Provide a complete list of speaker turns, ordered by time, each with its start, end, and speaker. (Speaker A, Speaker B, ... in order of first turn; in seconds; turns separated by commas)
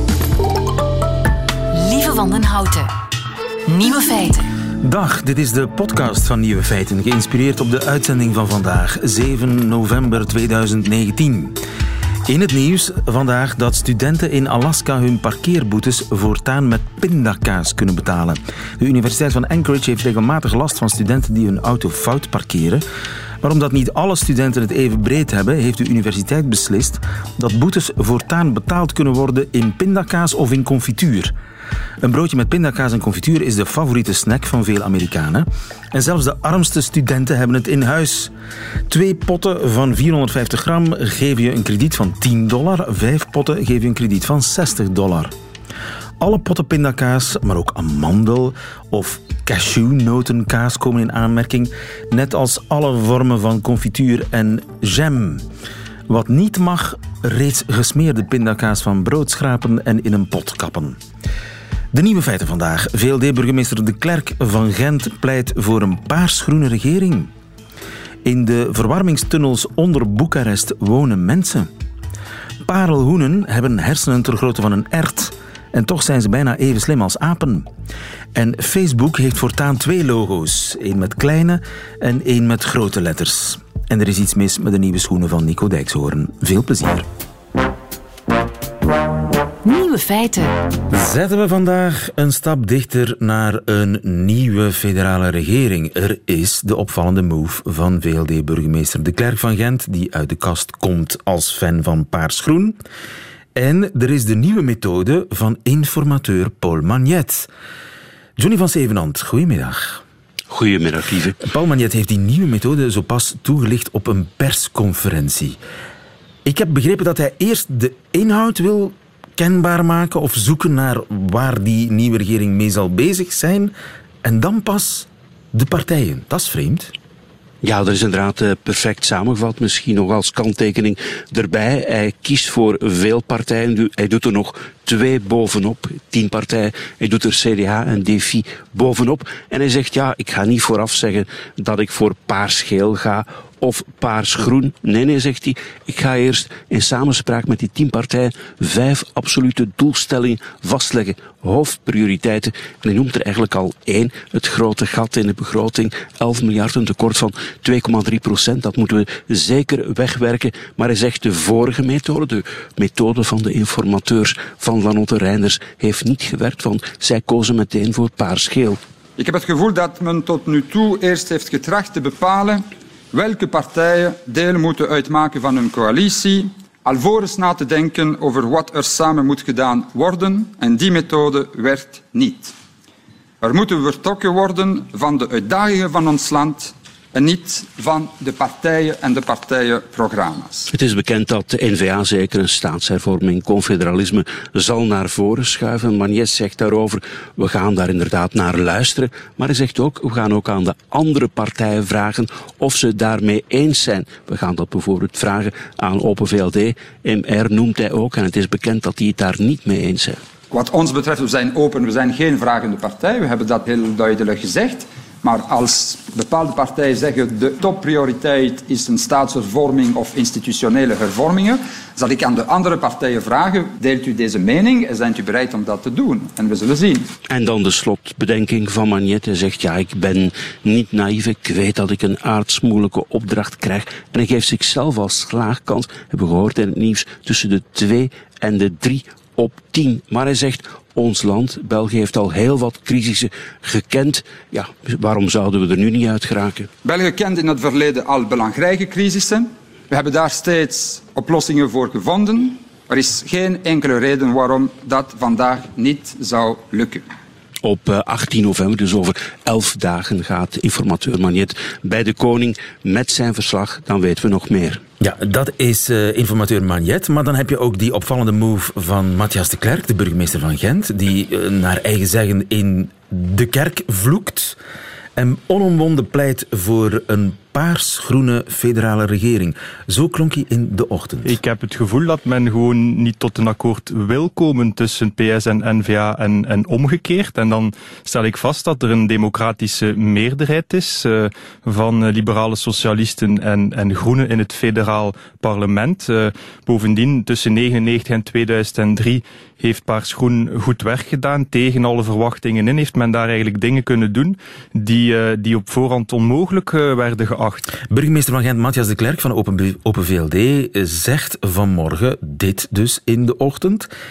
Speaker A: 1.7-2.9, Speaker A: 3.7-4.5, Speaker B: 4.8-11.6, Speaker B: 12.3-22.8, Speaker B: 23.4-31.3, Speaker B: 32.0-38.3, Speaker B: 38.9-45.3, Speaker B: 46.2-55.5, Speaker B: 56.1-61.0, Speaker B: 61.9-67.3, Speaker B: 68.2-71.7, Speaker B: 72.6-77.7, Speaker B: 78.3-87.1, Speaker A: 89.6-90.5, Speaker B: 90.9-102.8, Speaker B: 103.5-107.5, Speaker B: 108.4-110.0, Speaker C: 110.5-111.4, Speaker B: 111.4-115.6, Speaker B: 116.5-126.9, Speaker C: 127.6-168.8, Speaker D: 169.2-182.5, Speaker D: 183.4-190.7, Speaker C: 190.7-210.2, Speaker D: 210.5-227.1, Speaker C: 227.3-246.7, Speaker D: 246.8-257.1, Speaker C: 257.6-264.8, Speaker B: 265.0-274.6, Speaker B: 275.2-281.4, Speaker E: 281.2-307.7, Speaker B: 307.9-313.9